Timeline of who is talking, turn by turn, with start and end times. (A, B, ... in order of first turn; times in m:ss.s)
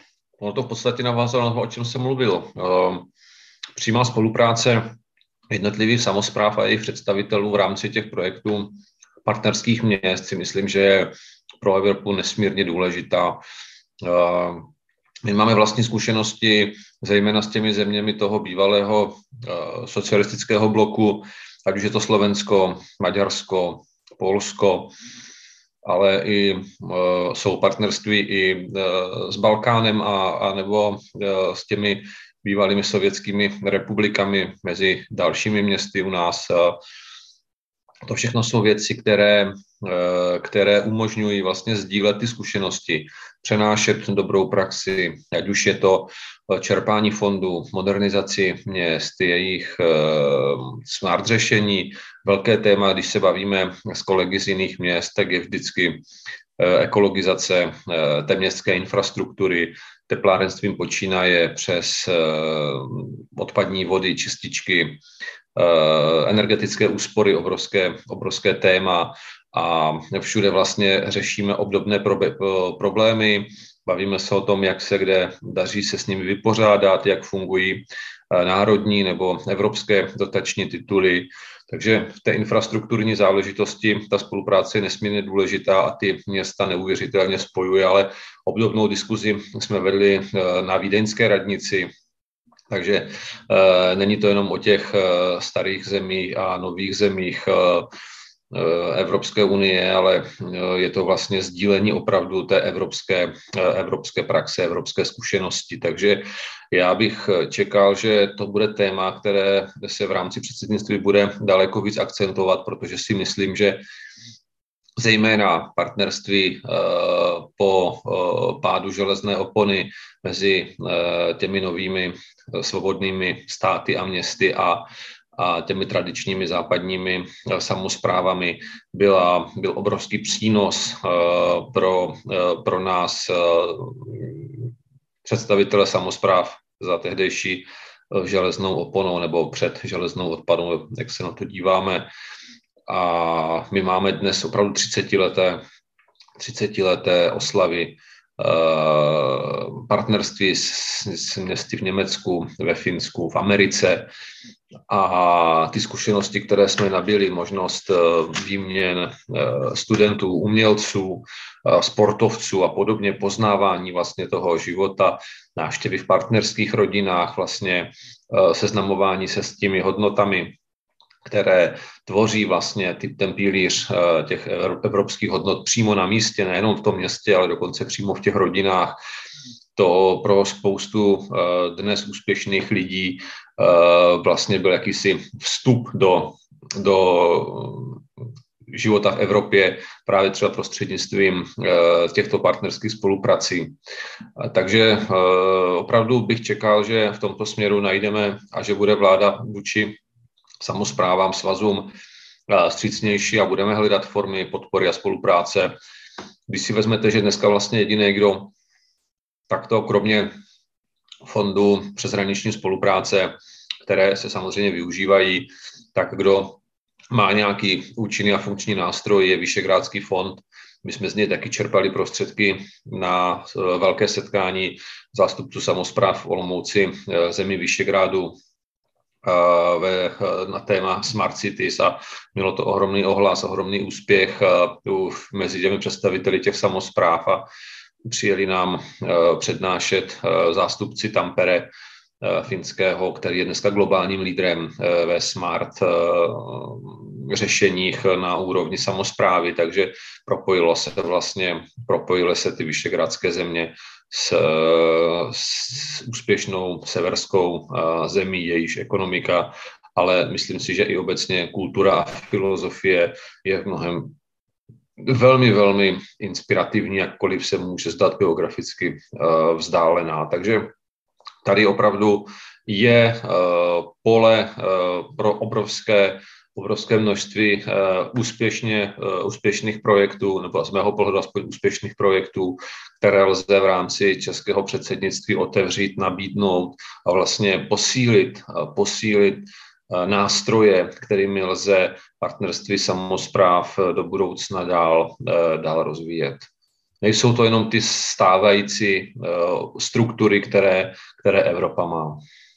0:00.4-0:03.1 A
0:03.8-0:05.0 A
0:05.5-0:13.4 A
0:14.0-0:14.7 A
0:15.2-0:24.9 A
0:25.8-0:36.8 A
0:38.1-0:56.0 A
0:56.6-1:05.0 A
1:05.6-1:31.9 A
1:32.7-1:37.9 A
1:38.5-1:53.8 A
1:55.0-2:04.8 A
2:05.4-2:14.7 A
2:15.2-2:22.1 A
2:22.9-2:25.6 A
2:26.4-2:34.1 A
2:34.9-2:50.6 A
2:51.3-2:59.0 A
2:59.8-3:08.0 A
3:08.7-3:13.8 A
3:14.4-3:20.0 A
3:20.6-3:21.9 A
3:22.5-3:25.8 A
3:26.5-3:28.5 A
3:29.5-3:30.3 A
3:31.2-3:36.6 A
3:37.1-3:48.4 A
3:49.2-3:57.4 A
3:58.1-4:01.7 A
4:02.2-4:24.2 A
4:25.0-4:30.7 A
4:31.4-4:56.5 A
4:57.0-5:02.2 A